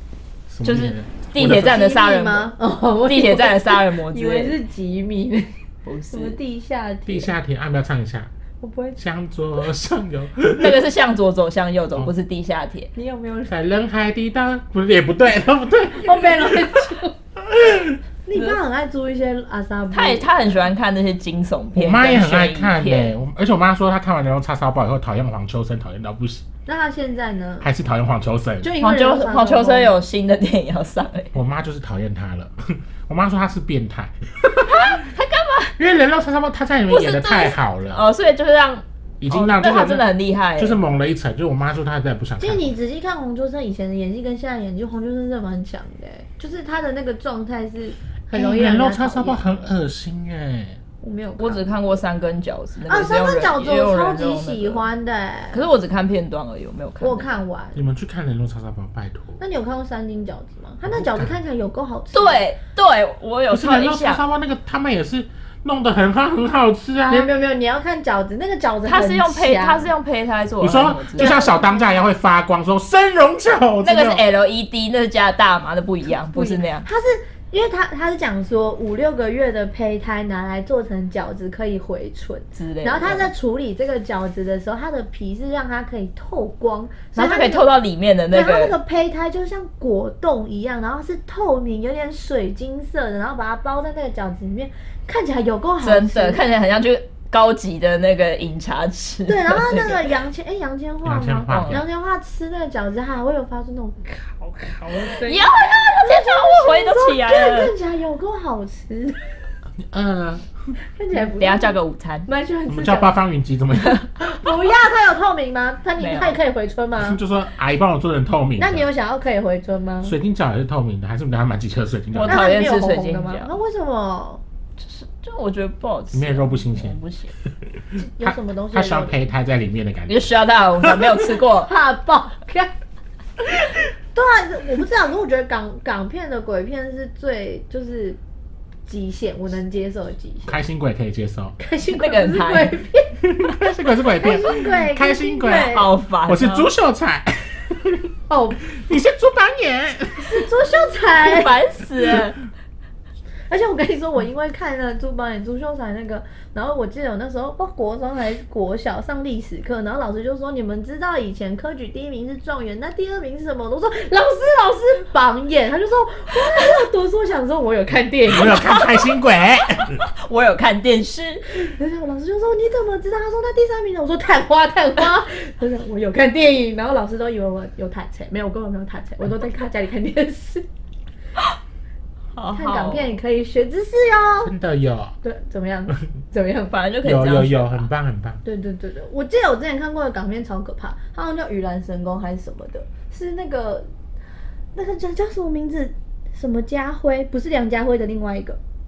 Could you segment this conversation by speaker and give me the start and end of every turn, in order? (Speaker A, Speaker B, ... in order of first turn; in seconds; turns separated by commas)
Speaker A: 0.5-1.8, Speaker B: 0.6-4.5, Speaker C: 1.5-5.5, Speaker B: 5.8-6.4, Speaker C: 6.1-7.3, Speaker A: 7.1-8.3, Speaker C: 8.6-9.0, Speaker A: 9.0-10.8, Speaker B: 10.6-12.9, Speaker C: 12.9-13.5, Speaker A: 13.4-16.8, Speaker C: 15.9-17.1, Speaker A: 17.4-18.0, Speaker C: 18.2-20.6, Speaker B: 19.9-23.1, Speaker A: 21.7-26.4, Speaker C: 26.6-27.7, Speaker A: 27.6-28.7, Speaker C: 28.6-30.0, Speaker B: 28.8-31.3, Speaker A: 31.3-35.0, Speaker B: 34.7-35.8, Speaker A: 35.8-38.0, Speaker B: 36.9-40.8, Speaker A: 39.2-40.0, Speaker A: 40.6-42.6, Speaker C: 42.4-49.4, Speaker A: 48.3-50.8, Speaker C: 51.0-51.7, Speaker B: 51.4-54.9, Speaker C: 52.9-55.6, Speaker B: 55.5-57.3, Speaker C: 57.0-57.8, Speaker A: 57.7-59.4, Speaker C: 59.4-62.4, Speaker A: 60.9-61.3, Speaker B: 62.1-64.2, Speaker A: 63.5-67.3, Speaker C: 67.1-69.9, Speaker B: 68.8-71.6, Speaker A: 70.6-74.2, Speaker C: 71.2-72.1, Speaker B: 73.8-76.9, Speaker C: 76.1-87.7, Speaker B: 82.5-83.3, Speaker B: 87.2-88.8, Speaker C: 88.3-96.4, Speaker B: 95.8-100.1, Speaker C: 99.3-109.3, Speaker A: 101.0-101.8, Speaker B: 101.5-101.8, Speaker B: 105.0-107.7, Speaker A: 109.8-110.5, Speaker C: 110.8-113.2, Speaker B: 111.1-112.3, Speaker A: 112.7-114.3, Speaker C: 114.2-117.2, Speaker B: 116.0-116.4, Speaker A: 117.0-118.9, Speaker C: 118.6-120.1, Speaker A: 120.0-122.5, Speaker B: 122.2-123.5, Speaker C: 122.2-124.4, Speaker B: 124.8-127.3, Speaker A: 126.1-127.0, Speaker C: 128.0-129.2, Speaker A: 128.2-131.3, Speaker B: 130.1-131.7, Speaker C: 131.6-132.7, Speaker C: 134.1-138.2, Speaker C: 138.9-140.6, Speaker A: 140.4-141.6, Speaker C: 141.6-143.5, Speaker B: 141.9-142.8, Speaker A: 143.2-148.1, Speaker C: 144.1-145.9, Speaker B: 145.5-146.7, Speaker C: 148.3-148.6, Speaker A: 148.7-150.5, Speaker C: 150.2-151.5, Speaker B: 151.2-152.4, Speaker C: 153.5-168.7, Speaker A: 168.3-170.0, Speaker B: 168.5-169.2, Speaker B: 169.8-171.4, Speaker C: 171.5-180.7, Speaker B: 182.3-183.2, Speaker C: 182.5-184.5, Speaker A: 184.4-185.1, Speaker C: 185.2-186.7, Speaker B: 186.7-187.8, Speaker A: 187.0-188.4, Speaker C: 188.4-193.9, Speaker C: 194.7-198.6